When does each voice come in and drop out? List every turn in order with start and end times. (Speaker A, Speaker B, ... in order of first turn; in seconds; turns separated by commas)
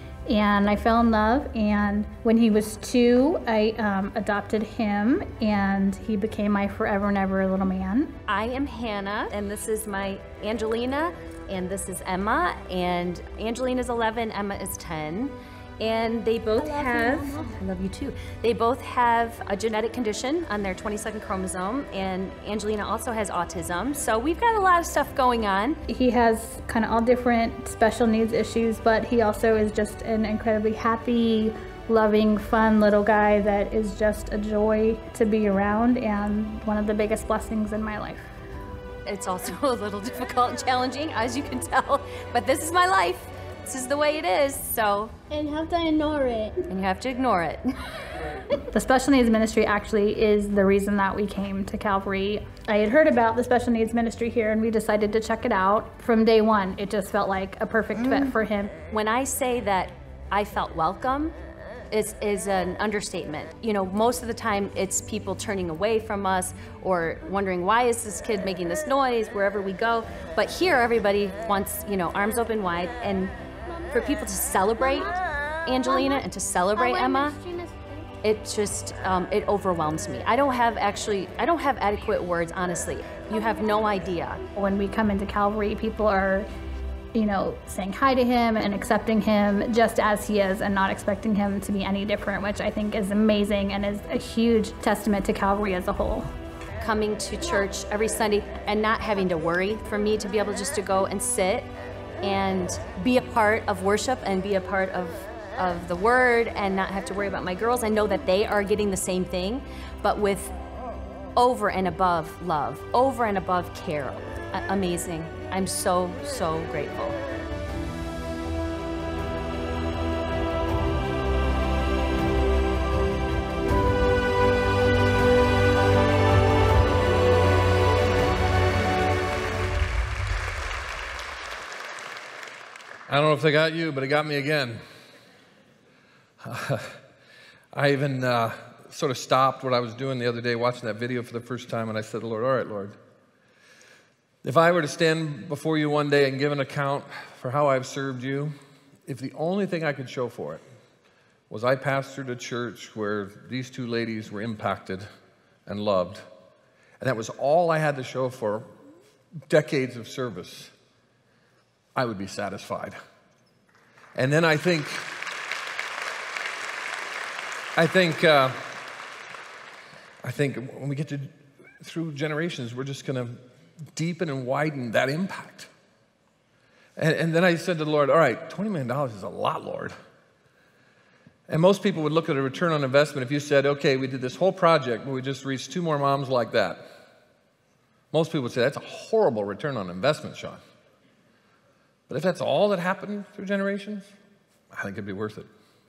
Speaker A: 0.3-8.2, Speaker B: 8.3-25.8, Speaker C: 16.6-17.5, Speaker A: 25.9-38.2, Speaker B: 39.0-45.1, Speaker C: 45.3-46.6, Speaker B: 46.7-47.7, Speaker A: 48.7-58.8, Speaker B: 58.8-61.3, Speaker B: 61.9-73.3, Speaker B: 73.9-77.4, Speaker C: 76.9-78.0, Speaker B: 78.2-84.4, Speaker A: 84.5-86.5, Speaker A: 87.1-96.3, Speaker B: 96.8-101.7, Speaker B: 102.2-110.5, Speaker B: 111.3-117.2, Speaker D: 133.1-134.8, Speaker D: 136.4-137.0, Speaker D: 137.7-142.9, Speaker D: 144.4-148.5, Speaker D: 149.1-150.6, Speaker D: 151.5-155.1, Speaker D: 155.7-156.2, Speaker D: 157.0-158.7, Speaker D: 159.5-160.7, Speaker D: 161.9-163.0, Speaker D: 164.1-165.1, Speaker D: 167.8-168.7, Speaker D: 170.2-173.4, Speaker D: 173.9-175.7, Speaker D: 177.0-179.9, Speaker D: 181.5-186.9, Speaker D: 188.1-190.6, Speaker D: 192.1-194.1, Speaker D: 194.7-195.5